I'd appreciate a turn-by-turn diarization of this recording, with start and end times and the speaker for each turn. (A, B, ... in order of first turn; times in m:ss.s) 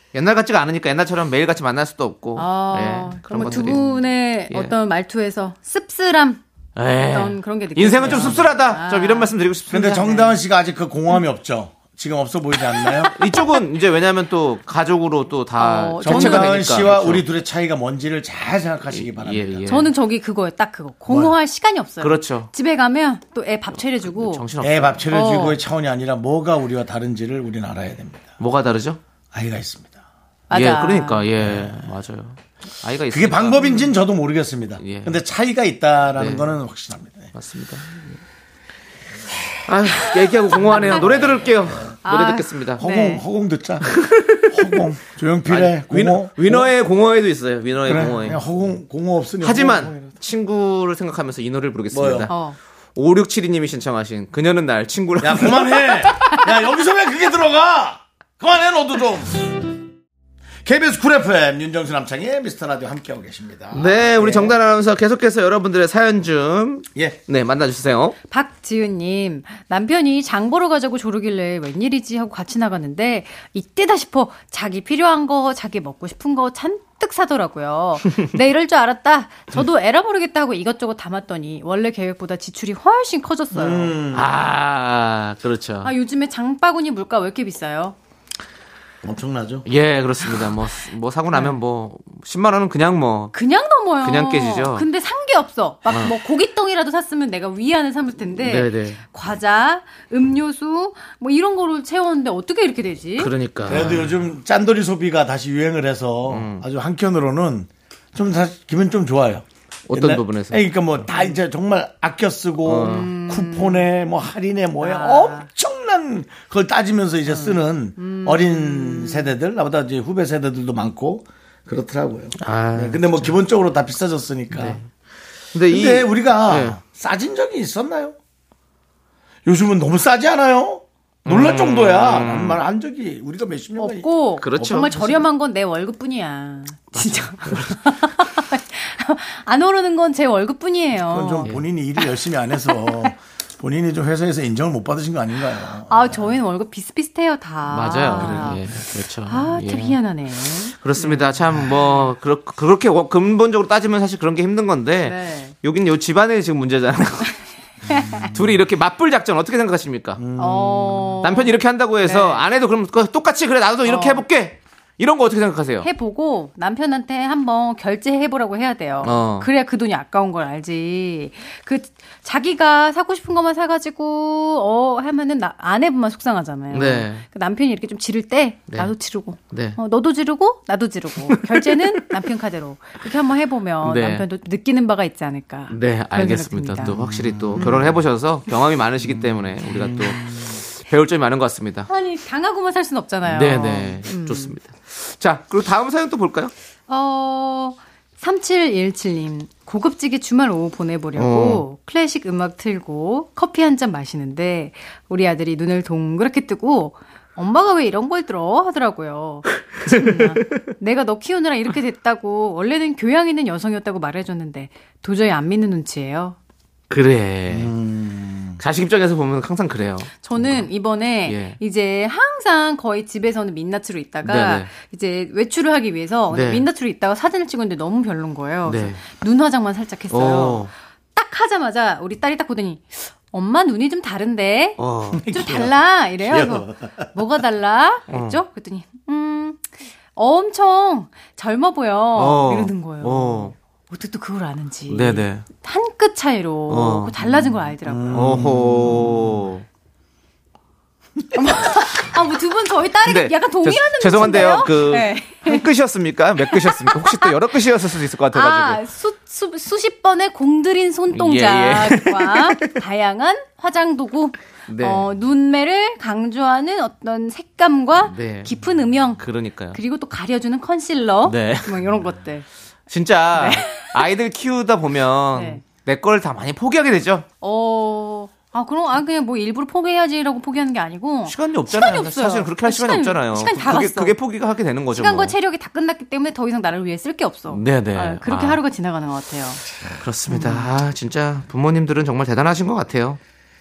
0:00.1-0:03.9 A
0:02.4-0:06.4 B
0:03.4-0:03.9 C
0:06.8-0:10.0 A
0:07.0-0:10.4 B
0:08.0-0:08.5 C
0:09.7-0:13.1 C
0:12.8-0:13.1 B
0:13.1-0:17.2 A
0:15.6-0:16.8 B
0:16.0-0:19.7 C
0:18.9-0:19.9 A
0:19.7-0:24.5 B
0:21.1-0:21.4 C
0:22.0-0:22.5 A
0:23.8-0:25.1 A
0:24.6-0:28.3 C
0:25.1-0:25.6 B
0:28.4-0:29.0 A
0:29.3-0:30.0 C
0:30.5-0:31.3 B
0:30.5-0:33.9 A
0:31.4-0:31.9 C
0:33.1-0:37.3 C
0:34.8-0:35.2 A
0:36.2-0:36.5 A
0:37.3-0:38.1 A
0:39.7-0:42.8 A
0:40.7-0:42.0 C
0:42.0-0:43.2 B
0:42.8-0:46.7 C
0:43.9-0:44.5 A
0:45.5-0:48.4 A
0:47.8-0:50.1 C
0:49.4-0:52.4 A
0:51.9-0:52.3 C
0:52.3-0:52.6 B
0:53.0-0:56.1 A
0:55.2-0:59.8 C
1:00.6-1:04.6 C
1:03.7-1:08.2 A
1:08.3-1:24.0 B
1:23.5-1:24.3 C
1:24.1-1:25.9 A
1:25.8-1:28.0 B
1:29.0-1:29.7 C
1:29.6-1:33.3 A
1:33.3-1:44.0 B
1:34.0-1:34.8 A
1:38.4-1:39.0 A
1:43.2-1:44.1 A
1:43.7-2:04.8 C
1:46.3-1:46.6 A
1:49.9-1:51.0 A
1:52.6-1:53.1 A
1:52.8-1:53.9 B
1:54.8-1:55.5 B
1:57.3-1:59.3 B
2:02.4-2:03.4 A
2:04.5-2:04.9 A
2:05.5-2:06.8 A
2:05.7-2:08.2 C
2:09.5-2:15.3 C
2:11.3-2:12.6 A
2:13.8-2:21.5 B
2:14.4-2:14.9 A
2:16.9-2:17.8 A
2:21.0-2:26.4 C
2:22.7-2:23.1 B
2:25.9-2:28.7 B
2:27.7-2:30.0 A
2:28.1-2:28.6 C
2:29.3-2:32.1 B
2:30.8-2:37.3 A
2:35.0-2:35.6 B
2:37.9-2:38.3 B
2:38.2-2:40.2 A
2:40.2-2:41.2 C
2:40.4-2:42.4 B
2:41.2-2:45.9 A
2:43.8-2:44.3 B
2:45.8-3:07.0 B
2:49.0-2:49.5 A
2:56.7-2:57.2 A
2:59.5-2:59.8 A
3:01.3-3:01.6 A
3:03.8-3:04.2 A
3:05.7-3:11.9 A
3:06.9-3:08.0 C
3:07.6-3:07.8 B
3:09.0-3:10.6 C
3:11.9-3:14.6 B
3:13.3-3:16.5 A
3:16.9-3:36.4 B
3:21.2-3:21.6 A
3:29.9-3:30.6 A
3:36.9-3:37.7 A
3:37.5-3:38.6 C
3:38.6-3:40.7 A
3:40.2-4:08.4 B
3:41.2-3:41.6 A
3:44.2-3:44.7 A
3:46.3-3:46.6 A
3:48.7-3:49.0 A
3:50.1-3:50.7 A
3:54.8-3:55.3 A
3:55.1-3:57.1 C
3:58.1-3:58.4 A
4:02.2-4:03.5 A
4:04.9-4:05.4 A
4:06.7-4:07.1 A
4:07.3-4:09.4 C
4:08.1-4:09.6 A
4:11.3-4:15.7 B
4:13.0-4:18.8 A
4:16.5-4:17.4 B
4:18.3-4:32.4 B
4:21.1-4:22.7 A
4:24.7-4:25.0 A
4:28.0-4:28.5 A
4:29.2-4:29.8 A
4:31.3-4:31.8 A
4:32.9-4:37.3 A
4:33.3-4:34.0 B
4:35.3-4:35.6 B
4:37.4-4:44.2 B
4:41.3-4:45.3 A
4:45.0-4:49.6 B
4:47.5-4:48.6 A
4:49.9-4:53.2 A
4:50.3-4:50.7 B